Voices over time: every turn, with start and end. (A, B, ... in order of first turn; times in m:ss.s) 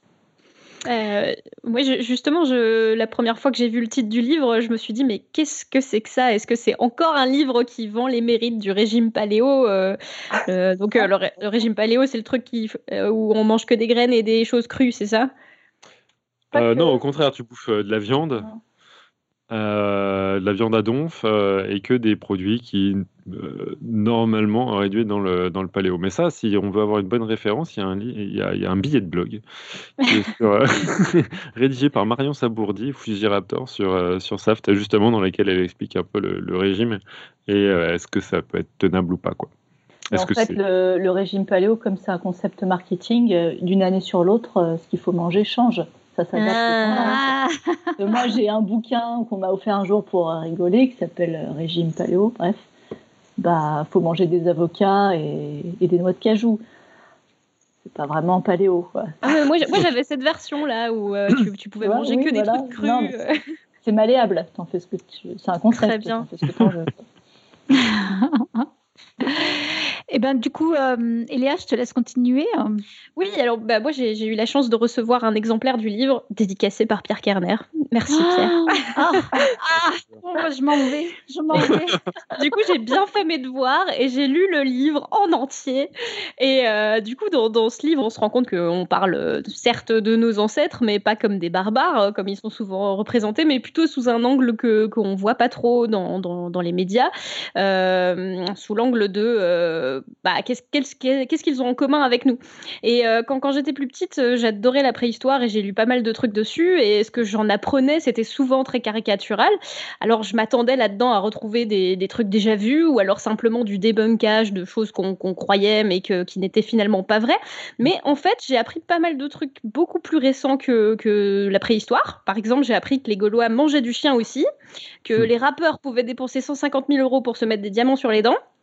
0:00.8-0:15.3 A
0:16.5-0:18.5 B
0:16.6-0:16.9 C
0:19.5-0:29.4 B
0:30.0-0:39.5 B
0:40.1-0:40.6 B
0:40.1-0:47.4 C
0:46.4-0:47.2 A
0:46.8-0:47.5 D
0:48.0-0:52.7 C
0:53.4-0:56.6 C
0:57.8-0:59.1 C
0:59.2-1:03.4 A
1:01.8-1:03.1 C
1:03.8-1:07.0 C
1:05.7-1:06.3 A
1:07.8-1:08.6 D
1:09.2-1:12.8 D
1:13.2-1:19.4 A
1:18.1-1:22.0 D
1:22.4-2:04.5 A
2:05.0-2:08.4 A